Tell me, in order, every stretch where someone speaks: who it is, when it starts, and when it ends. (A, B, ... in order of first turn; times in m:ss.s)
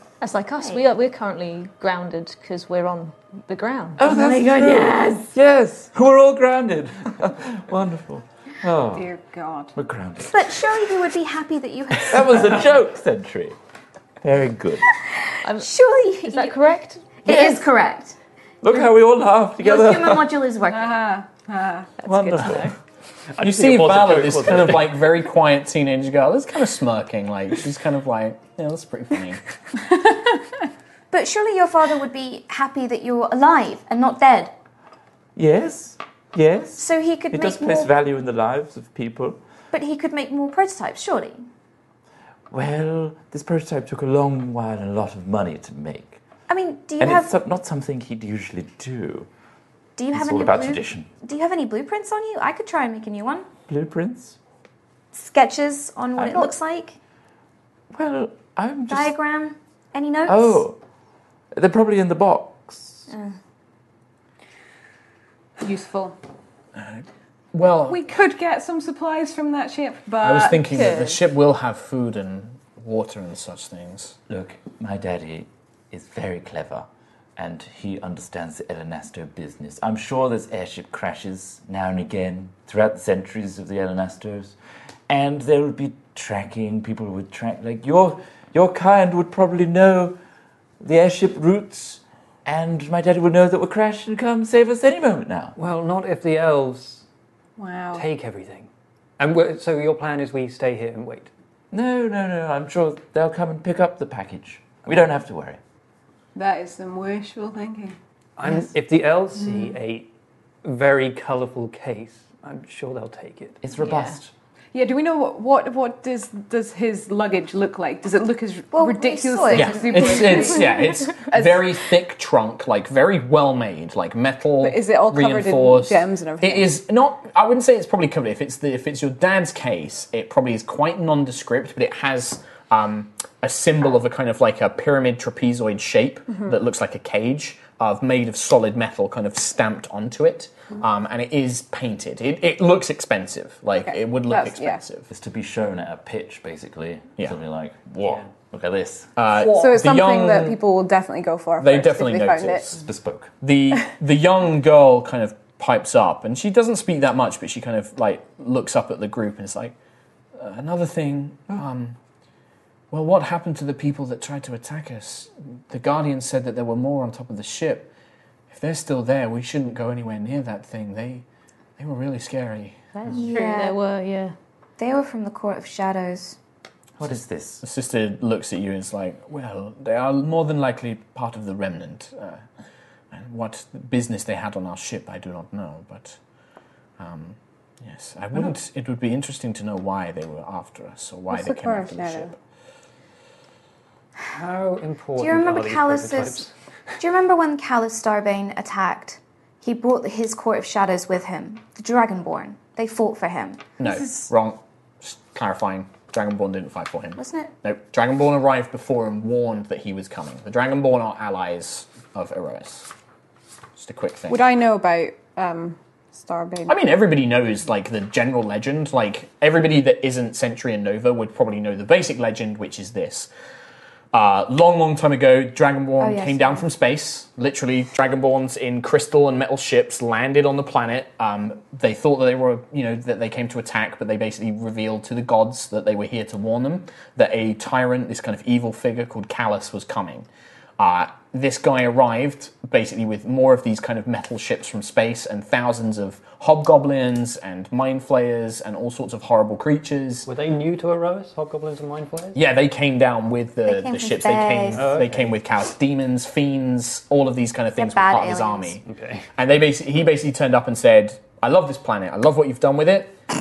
0:00.2-0:04.2 A
0:00.6-0:00.8 B
0:04.0-0:09.1 C
0:04.0-0:04.9 B
0:08.9-0:09.7 D
0:09.8-0:10.9 C
0:10.2-0:12.6 B
0:12.0-0:13.6 C
0:14.2-0:14.9 C
0:15.4-0:15.7 A
0:15.5-0:16.7 B
0:16.2-0:17.2 A
0:17.2-0:18.1 B
0:17.3-0:17.6 C
0:18.6-0:20.4 C
0:19.6-0:21.0 B
0:20.7-0:21.9 D
0:22.0-0:22.7 A
0:22.0-0:22.7 C
0:23.3-0:25.0 E
0:23.4-0:29.4 F
0:30.0-0:30.3 D
0:31.1-0:34.5 B
0:35.4-0:39.4 C
0:36.8-0:37.9 B
0:39.7-0:41.4 B
0:42.5-0:46.2 C
0:46.5-0:47.3 B
0:47.0-0:49.3 C
0:50.0-0:53.5 B
0:50.1-0:51.1 C
0:53.7-0:54.4 C
0:55.1-0:57.0 B
0:56.2-0:56.6 C
0:57.9-0:59.1 C
0:58.9-1:00.6 B
1:00.3-1:00.8 C
1:01.5-1:03.1 C
1:03.1-1:03.4 B
1:05.6-1:06.2 D
1:06.8-1:08.0 F
1:07.9-1:10.8 D
1:10.2-1:14.2 F
1:10.7-1:11.2 A
1:14.3-1:16.9 C
1:17.4-1:24.6 C
1:25.1-1:30.2 C
1:30.8-1:35.6 C
1:35.6-1:37.0 E
1:37.6-1:38.0 D
1:37.9-1:41.3 E
1:41.7-1:45.6 C
1:46.3-1:48.0 D
1:48.4-1:50.1 E
1:49.4-1:49.7 D
1:50.6-1:53.6 E
1:53.6-1:54.3 C
1:53.8-1:54.1 A
1:54.7-2:01.6 D
1:58.7-2:00.7 B
1:59.5-2:25.1 F
2:04.6-2:06.7 D
2:23.9-2:24.8 D
2:25.1-2:29.1 C
2:28.0-2:28.3 E
2:29.2-2:30.6 F
2:29.4-2:32.7 D
2:31.6-2:32.8 F
2:32.7-2:33.3 C
2:33.4-2:39.7 F
2:40.3-2:42.0 F
2:42.9-2:47.9 F
2:48.5-2:51.2 F
2:51.8-2:52.9 F
2:53.0-2:54.3 A
2:53.1-2:53.7 D
2:53.1-2:53.7 B
2:54.8-2:56.4 B
2:57.0-2:57.6 C
2:57.6-3:02.4 F
3:03.1-3:06.2 F
3:07.0-3:12.3 F
3:11.3-3:12.3 D
3:14.3-3:16.5 E
3:15.2-3:16.4 B
3:17.0-3:23.9 B
3:23.8-3:32.9 F
3:27.2-3:27.5 B
3:33.8-3:34.4 F
3:34.3-3:36.8 D
3:36.7-3:43.3 F
3:44.1-4:00.3 F
3:46.0-3:46.6 B
4:00.8-4:10.3 F
4:10.3-4:12.4 E
4:12.3-4:18.8 F
4:13.6-4:14.9 B
4:14.7-4:15.3 E
4:17.8-4:18.8 B
4:18.9-4:19.3 E
4:19.4-4:23.2 F